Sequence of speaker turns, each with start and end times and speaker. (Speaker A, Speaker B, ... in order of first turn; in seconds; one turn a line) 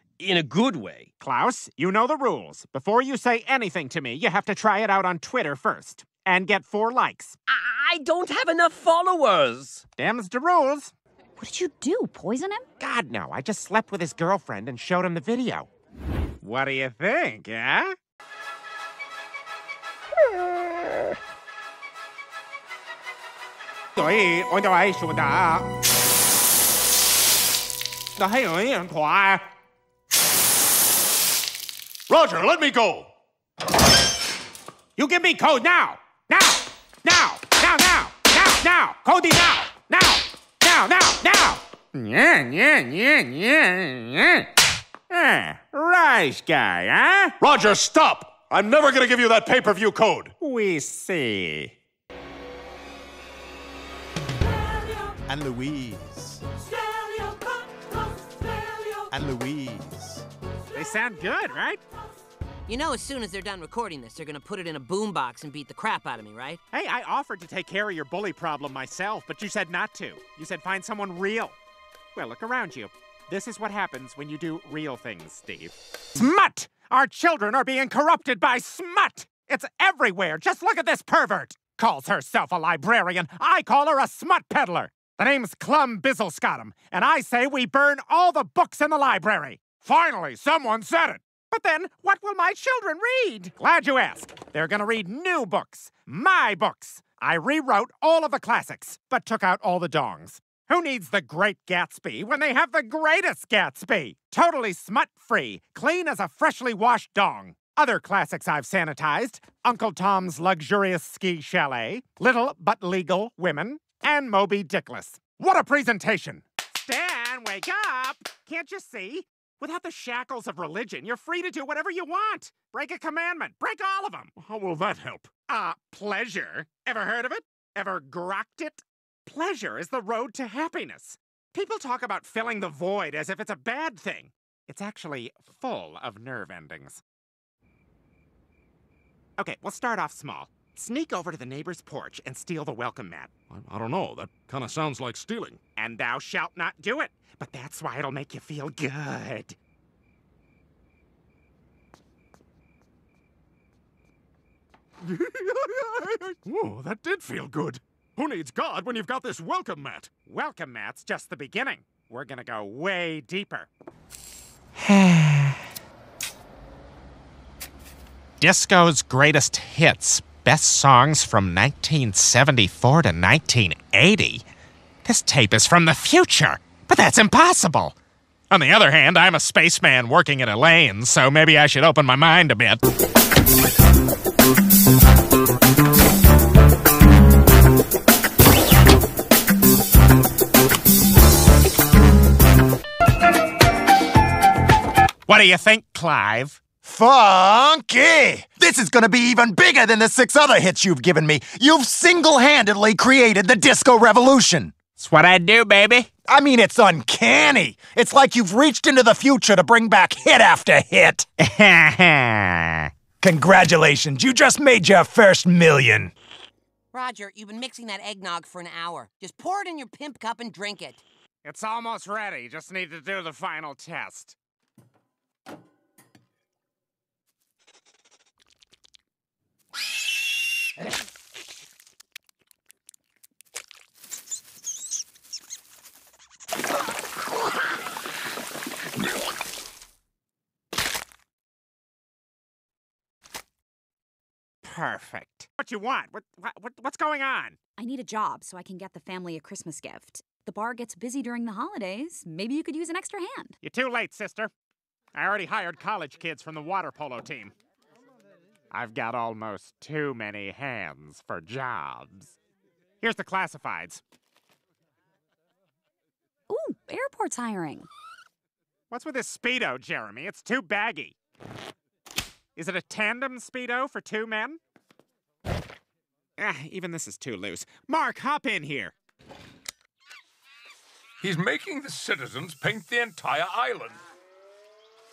Speaker A: 0.2-1.1
Speaker B: 1.2-7.4
Speaker A: 8.1-9.8
Speaker B: 10.0-10.9
Speaker C: 11.4-12.6
Speaker B: 12.8-15.7
Speaker B: 16.4-17.9
Speaker B: 24.0-25.7
Speaker B: 28.2-29.4
Speaker D: 32.1-33.1
Speaker B: 35.0-44.5
Speaker B: 45.1-47.4
Speaker D: 47.4-50.3
Speaker B: 50.4-51.8
Speaker E: 55.3-56.4
Speaker E: 59.1-60.2
Speaker B: 60.7-61.8
Speaker F: 62.7-66.6
Speaker B: 66.7-71.6
Speaker B: 72.2-124.3
Speaker D: 124.4-125.3
Speaker B: 125.5-137.0
Speaker B: 139.4-143.3
Speaker D: 143.5-145.6
Speaker B: 145.8-149.6
Speaker D: 155.0-160.1
Speaker B: 160.2-163.7
Speaker B: 164.8-165.6
Speaker B: 168.4-174.4
Speaker B: 175.0-177.9
Speaker B: 178.5-182.8
Speaker B: 195.3-196.6
Speaker E: 196.8-204.7
Speaker B: 205.0-206.1
Speaker E: 206.3-211.2
Speaker B: 211.4-212.9
Speaker E: 213.2-216.1
Speaker F: 216.9-221.0
Speaker B: 221.4-224.4
Speaker B: 244.6-247.6
Speaker C: 247.8-253.5
Speaker B: 253.6-254.5
Speaker B: 255.2-257.5
Speaker B: 258.7-262.4
Speaker B: 263.0-264.0
Speaker C: 266.5-267.9
Speaker B: 268.9-271.2
Speaker B: 272.6-274.6
Speaker B: 276.4-278.9
Speaker D: 281.2-284.0